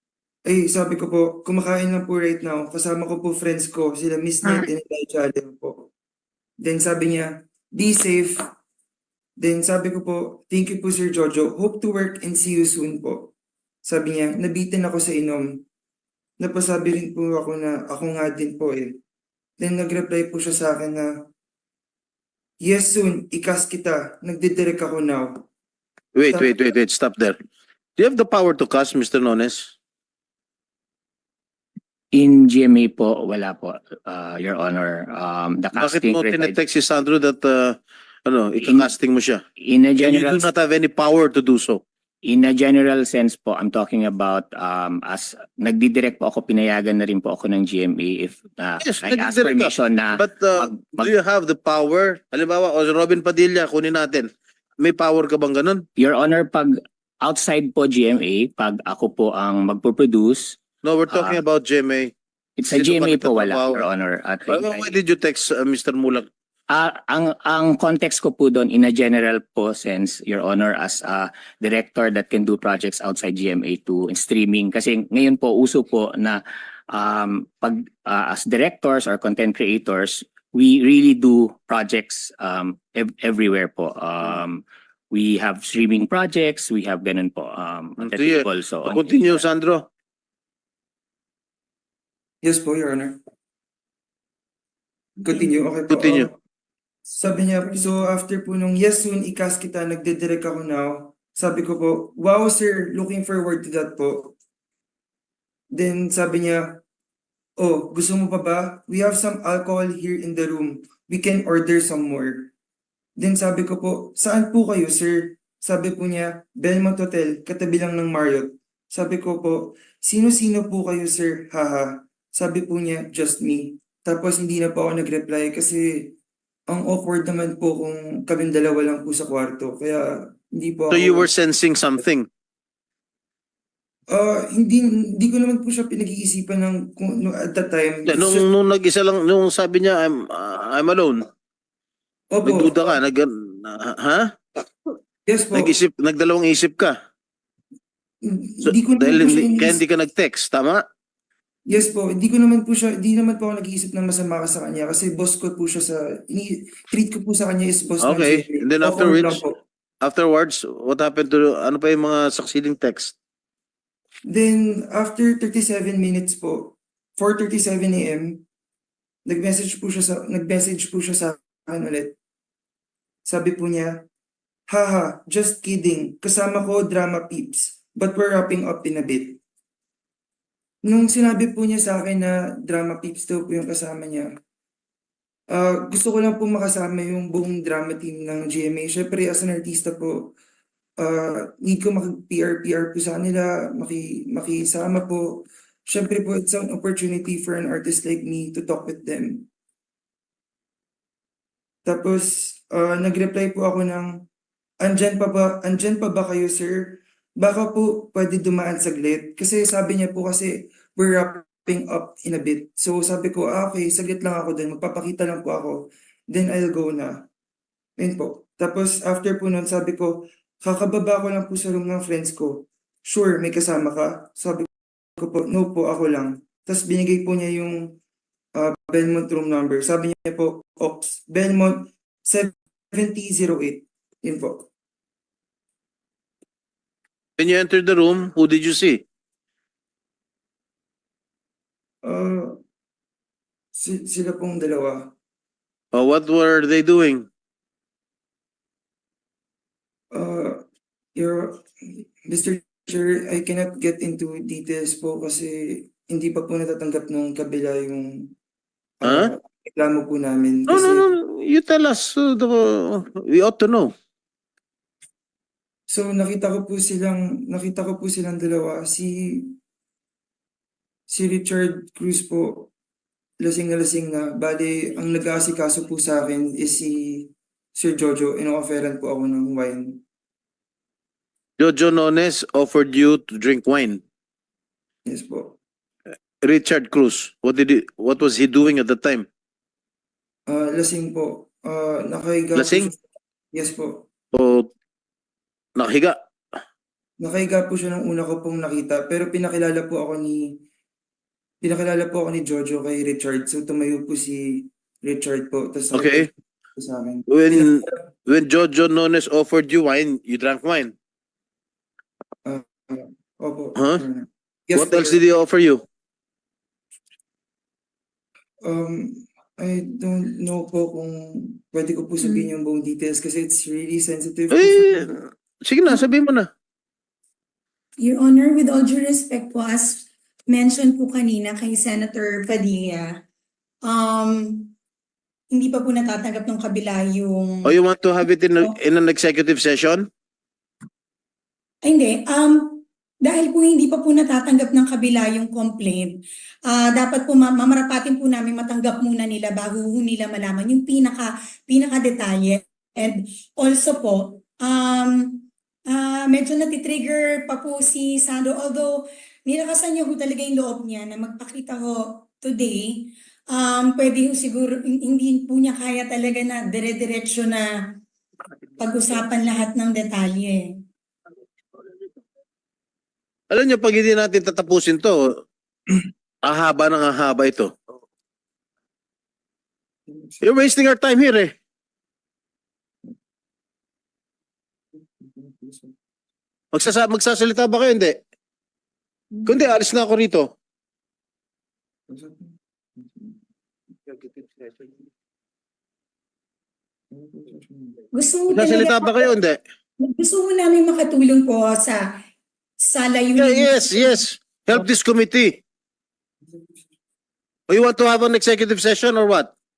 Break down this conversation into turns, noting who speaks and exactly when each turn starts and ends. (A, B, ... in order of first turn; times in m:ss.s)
0:00.4-0:05.9 A
0:06.6-0:08.4 A
0:09.4-0:13.3 A
0:13.8-0:15.6 A
0:16.4-0:19.0 A
0:19.6-0:21.1 A
0:22.6-0:25.4 A
0:26.2-0:27.4 B
0:28.0-0:29.7 B
0:32.1-0:36.6 C
0:35.8-0:39.4 B
0:38.6-0:38.9 C
0:39.6-0:40.4 C
0:40.0-0:41.8 B
0:42.2-0:51.1 C
0:48.8-0:54.3 B
0:54.8-0:55.8 B
0:56.0-1:00.6 C
1:00.8-1:02.1 B
1:01.1-1:01.4 C
1:02.6-1:04.9 C
1:02.7-1:03.8 B
1:04.5-1:06.2 B
1:06.7-1:29.4 C
1:28.0-1:29.8 B
1:32.4-1:33.2 A
1:35.2-1:36.4 A
1:35.9-1:36.3 B
1:37.1-1:44.3 A
1:45.7-1:46.8 A
1:47.6-1:52.5 A
1:53.2-2:06.1 A
2:06.7-2:11.3 A
2:10.9-2:12.2 B
2:14.1-2:18.5 A
2:18.1-2:21.2 B
2:22.3-2:22.8 A
2:22.4-2:24.4 B
2:25.2-2:25.7 A
2:25.5-2:26.9 B
2:28.2-2:29.8 A
2:28.6-2:30.8 B
2:31.7-2:39.6 A
2:38.0-2:39.4 B
2:40.0-2:43.1 B
2:44.3-2:48.4 A
2:49.2-2:52.2 A
2:53.3-2:54.0 A
2:54.7-2:59.4 A
3:00.8-3:04.3 A
3:05.5-3:10.3 A
3:11.0-3:19.4 A
3:21.8-3:24.1 A
3:24.8-3:37.2 A
3:38.0-3:48.0 A
3:48.5-3:54.7 A
3:57.4-3:59.0 B
4:02.0-4:02.6 A
4:03.7-4:05.1 A
4:05.9-4:07.3 B
4:10.1-4:10.6 A
4:11.1-4:18.3 A
4:19.0-4:21.1 A
4:19.0-4:19.3 B
4:20.7-4:23.9 B
4:25.9-4:29.6 A
4:31.1-4:32.7 A
4:33.4-4:40.0 A
4:41.6-4:44.0 B
4:45.0-4:45.6 A
4:46.4-4:49.2 B
4:50.5-4:54.0 A
4:52.5-4:52.9 B
4:54.3-4:54.7 B
4:55.8-4:56.2 B
4:57.2-5:00.6 A
5:01.6-5:08.0 A
5:05.9-5:06.3 B
5:07.3-5:10.9 B
5:12.4-5:15.2 A
5:13.8-5:14.0 B
5:14.7-5:15.8 B
5:18.6-5:25.1 A
5:22.2-5:22.5 D
5:24.5-5:26.5 B
5:28.0-5:33.1 D
5:33.8-5:34.7 D
5:35.5-5:37.8 D
5:37.6-5:40.1 B
5:41.8-6:08.0 D
6:08.8-6:10.8 D
6:13.5-6:15.2 B
6:16.4-6:17.7 B
6:20.1-6:20.4 A
6:20.4-6:21.5 B
6:25.0-6:25.9 A
6:26.7-6:28.2 B
6:29.4-6:30.5 B
6:32.1-6:33.4 A
6:34.0-6:34.7 A
6:37.1-6:38.0 A
6:38.1-6:39.3 D
6:38.5-6:39.6 B
6:40.0-6:42.2 D
6:42.8-6:44.2 D
6:43.4-6:45.6 B
6:47.7-6:49.5 B